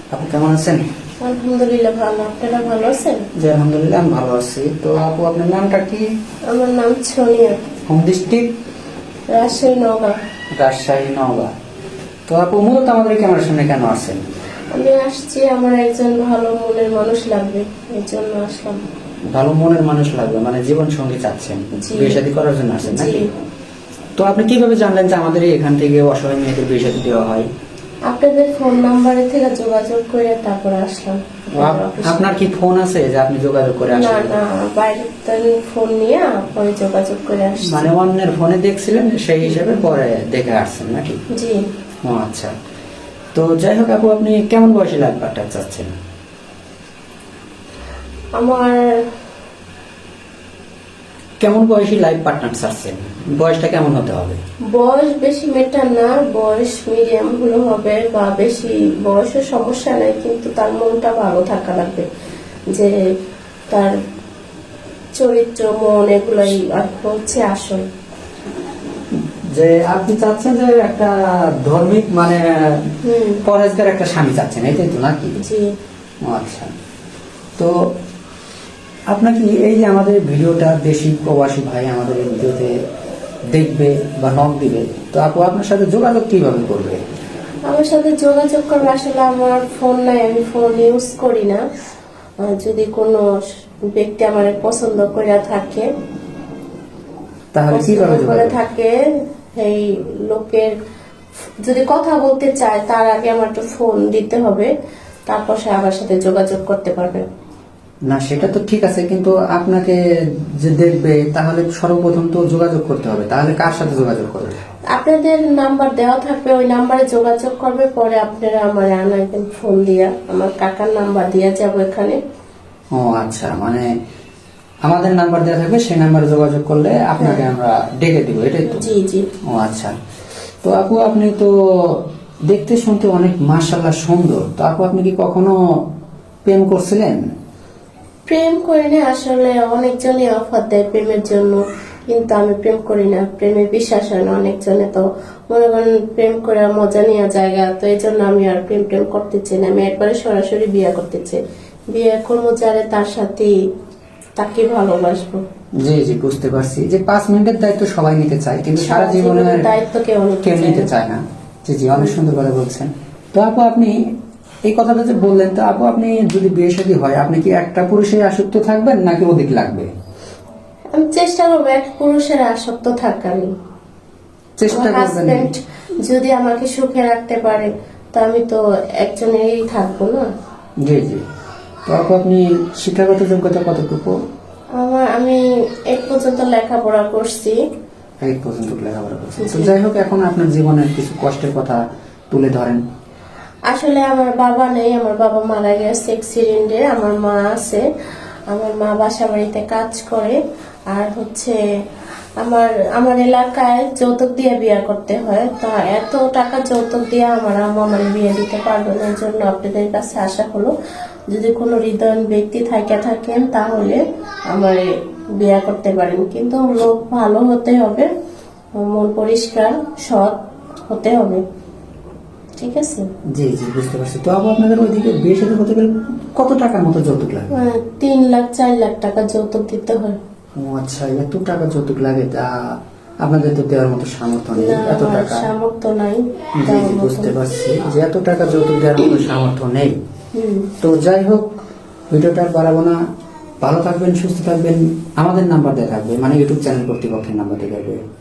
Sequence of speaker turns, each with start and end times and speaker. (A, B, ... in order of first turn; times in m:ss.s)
0:00.1-0:00.8 A
0:01.2-0:03.2 B
0:03.4-0:06.1 A
0:06.5-0:07.6 B
0:07.9-0:08.5 A
0:09.3-0:10.2 B
0:10.5-0:11.5 A
0:12.3-0:14.2 A
0:14.8-0:18.8 B
0:19.3-0:23.2 A
0:21.8-0:22.2 B
0:22.8-0:23.2 B
0:24.2-0:27.5 A
0:28.1-0:32.4 B
0:31.6-0:34.4 A
0:33.9-0:37.8 B
0:37.7-0:41.2 A
0:41.4-0:41.6 B
0:42.1-0:42.5 A
0:43.4-0:45.9 A
0:48.4-0:48.8 B
0:51.4-0:54.4 A
0:54.7-1:02.1 B
1:05.2-1:07.8 B
1:09.6-1:12.9 A
1:13.0-1:13.4 B
1:13.4-1:15.4 A
1:15.4-1:15.7 B
1:16.3-1:16.7 A
1:19.1-1:22.7 A
1:23.5-1:27.0 A
1:27.7-1:31.6 B
1:32.4-1:33.2 B
1:33.9-1:35.9 B
1:37.5-1:38.6 A
1:37.7-1:38.9 B
1:39.6-1:40.7 B
1:41.7-1:44.7 B
1:45.3-1:47.2 B
1:48.1-1:50.0 A
1:50.6-1:54.6 A
1:54.9-2:02.2 B
2:03.0-2:03.9 A
2:04.9-2:08.8 A
2:07.2-2:07.4 B
2:08.7-2:09.3 B
2:09.5-2:09.9 A
2:10.6-2:15.5 A
2:16.5-2:17.2 A
2:18.3-2:31.4 B
2:31.9-2:33.5 B
2:34.4-2:35.4 B
2:35.8-2:39.7 A
2:38.8-2:40.9 B
2:40.4-2:43.9 A
2:44.6-2:49.9 A
2:50.9-2:53.5 B
2:54.6-2:55.5 A
2:54.7-3:00.3 B
3:00.8-3:01.2 A
3:01.9-3:04.2 A
3:04.8-3:07.6 B
3:08.2-3:12.8 A
3:09.4-3:09.7 B
3:13.7-3:17.8 B
3:18.5-3:20.4 B
3:20.9-3:21.6 B
3:22.4-3:30.7 B
3:31.3-3:34.0 B
3:34.5-3:34.8 B
3:35.4-3:38.1 B
3:38.8-3:40.4 B
3:40.9-3:41.4 B
3:42.6-3:43.0 B
3:43.4-3:47.5 A
3:47.5-3:50.2 B
3:50.6-3:52.5 A
3:53.2-3:55.5 A
3:54.6-3:57.3 B
3:56.6-4:00.0 A
4:00.4-4:00.7 B
4:00.8-4:01.5 A
4:02.1-4:03.0 A
4:03.6-4:08.0 A